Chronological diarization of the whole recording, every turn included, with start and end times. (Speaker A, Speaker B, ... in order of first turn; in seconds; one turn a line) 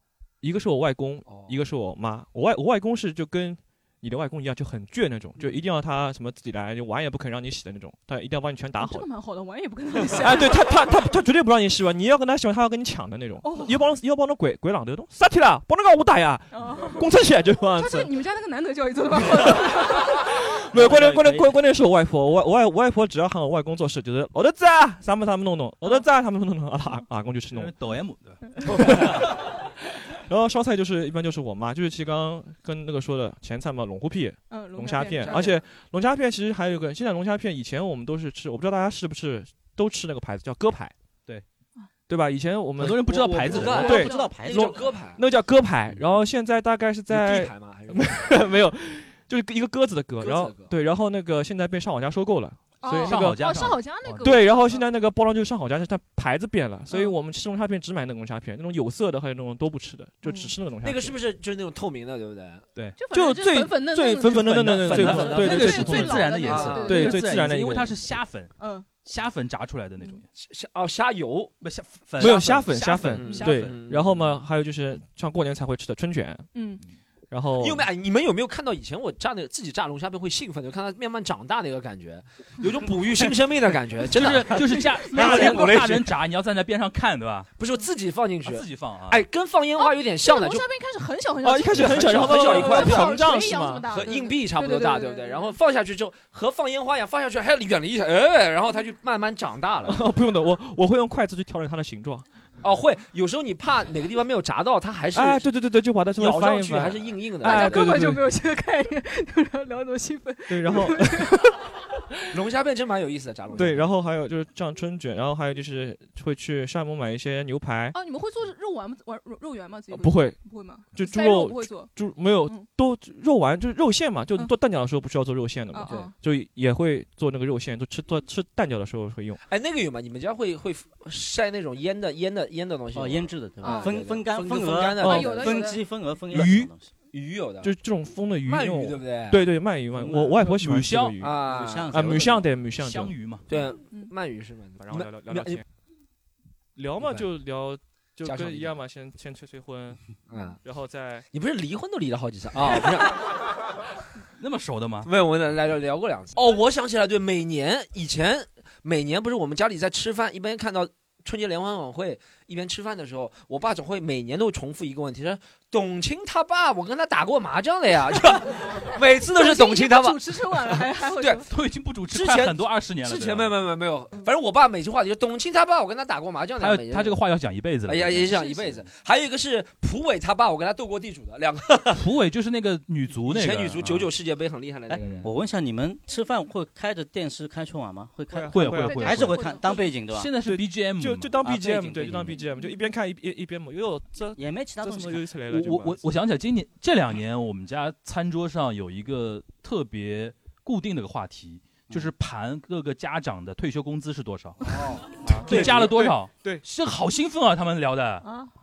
Speaker A: 0.4-9.1
Speaker B: 1.3-1.6
Speaker C: 8.8-10.8
Speaker A: 10.1-18.1
Speaker C: 13.4-13.8
Speaker C: 16.5-17.1
Speaker C: 17.7-20.1
Speaker A: 20.7-27.8
Speaker D: 20.7-21.6
Speaker E: 27.5-28.6
Speaker A: 28.7-29.4
Speaker A: 30.3-40.9
Speaker C: 34.5-35.6
Speaker A: 42.1-53.6
Speaker E: 42.8-43.9
Speaker B: 43.0-45.2
Speaker D: 43.4-45.0
Speaker C: 43.8-44.3
Speaker B: 47.1-48.3
Speaker B: 50.2-50.7
Speaker C: 52.8-54.9
Speaker E: 53.0-54.3
Speaker A: 54.2-61.2
Speaker C: 56.9-57.2
Speaker C: 60.2-60.5
Speaker B: 60.8-62.7
Speaker C: 63.0-67.3
Speaker A: 63.1-68.0
Speaker B: 63.9-67.1
Speaker E: 64.3-68.5
Speaker C: 68.6-68.9
Speaker E: 69.0-70.3
Speaker B: 70.4-71.5
Speaker E: 71.6-73.8
Speaker A: 72.2-76.5
Speaker B: 72.2-74.1
Speaker C: 73.0-73.6
Speaker C: 76.5-76.8
Speaker A: 77.3-77.9
Speaker B: 77.6-86.1
Speaker E: 84.1-87.5
Speaker C: 85.1-85.5
Speaker D: 85.2-85.8
Speaker B: 87.6-90.7
Speaker E: 88.5-89.2
Speaker C: 89.8-95.5
Speaker A: 91.4-94.0
Speaker B: 91.7-100.0
Speaker A: 99.9-102.3
Speaker B: 102.6-105.5
Speaker A: 105.1-108.2
Speaker B: 106.2-108.0
Speaker C: 107.4-111.5
Speaker A: 110.5-111.5
Speaker B: 112.3-113.9
Speaker A: 113.5-118.0
Speaker C: 117.9-122.7
Speaker A: 119.9-129.4
Speaker C: 125.7-126.2
Speaker B: 129.4-135.7
Speaker D: 132.9-136.9
Speaker C: 133.6-133.9
Speaker C: 135.0-135.8
Speaker A: 136.3-136.7
Speaker B: 137.1-137.7
Speaker A: 137.6-143.2
Speaker B: 138.5-139.4
Speaker D: 140.0-140.5
Speaker E: 140.0-141.2
Speaker B: 141.2-142.2
Speaker D: 141.4-142.6
Speaker E: 142.8-143.4
Speaker B: 143.5-145.6
Speaker A: 144.8-145.6
Speaker A: 146.8-150.1
Speaker B: 147.0-147.3
Speaker B: 148.2-148.8
Speaker B: 150.3-150.6
Speaker A: 150.6-151.3
Speaker B: 151.3-153.2
Speaker E: 154.4-155.1
Speaker B: 155.0-171.4
Speaker C: 169.2-171.5
Speaker E: 171.5-173.6
Speaker B: 172.1-177.2
Speaker E: 176.6-178.3
Speaker B: 177.9-182.0
Speaker C: 178.4-178.7
Speaker E: 181.9-184.1
Speaker B: 183.2-185.3
Speaker D: 184.9-190.3
Speaker A: 188.3-189.4
Speaker E: 188.5-189.4
Speaker C: 188.8-189.9
Speaker E: 190.1-191.4
Speaker A: 190.4-196.0
Speaker D: 191.4-192.4
Speaker C: 192.5-192.9
Speaker D: 194.3-195.4
Speaker E: 195.5-204.7
Speaker D: 205.3-205.8
Speaker E: 205.3-208.3
Speaker B: 205.5-206.1
Speaker C: 208.2-208.5